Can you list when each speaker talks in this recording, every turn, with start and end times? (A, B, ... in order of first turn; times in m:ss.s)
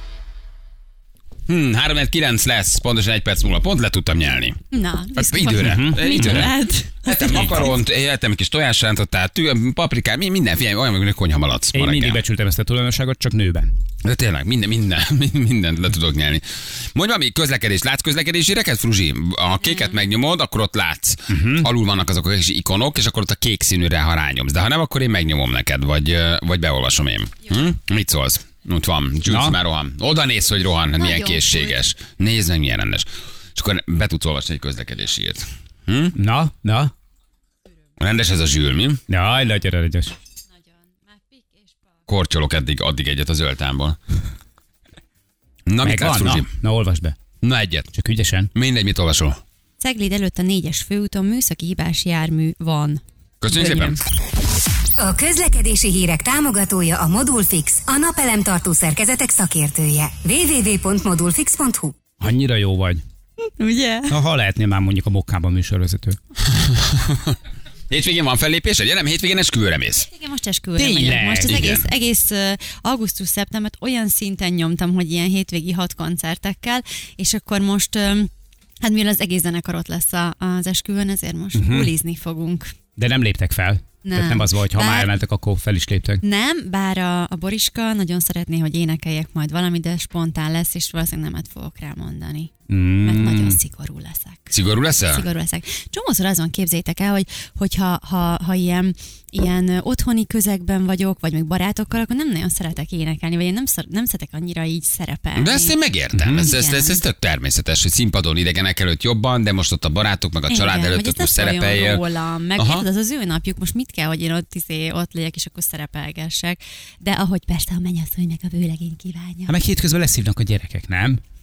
0:01.5-0:04.6 A
0:04.7-0:07.0 B
0:05.2-0:06.5 A
0:05.5-0:06.5 C
0:07.0-0:12.2 A
0:07.3-0:07.7 C
0:11.7-0:13.7 C
0:14.0-0:36.1 A
0:21.3-0:21.7 C
0:29.3-0:29.6 C
0:31.0-0:31.8 B
0:36.1-0:36.9 C
0:38.0-0:39.0 A
0:39.1-0:40.1 C
0:40.6-0:41.8 B
0:42.1-0:44.0 A
0:45.7-0:46.5 A
0:45.8-0:47.1 C
0:47.4-0:47.9 A
0:47.9-0:48.5 C
0:48.5-0:49.4 A
0:49.8-0:53.0 B
0:53.4-0:54.0 A
0:53.5-0:54.0 B
0:55.0-1:02.0 D
1:02.2-1:03.0 C
1:03.6-1:04.2 B
1:04.1-1:06.2 C
1:06.5-1:07.4 A
1:07.9-1:10.1 A
1:10.0-1:18.3 B
1:10.8-1:11.8 C
1:11.5-1:11.8 A
1:18.8-1:22.7 B
1:21.5-1:21.9 C
1:23.0-1:26.2 C
1:24.0-1:25.1 B
1:26.2-1:32.5 B
1:32.7-1:33.6 C
1:33.0-1:34.5 B
1:34.5-1:35.2 A
1:35.0-1:45.7 B
1:45.4-1:52.0 A
1:46.2-1:46.4 C
1:46.4-1:47.0 B
1:50.5-1:59.5 B
1:52.6-1:52.8 A
1:59.5-2:01.2 C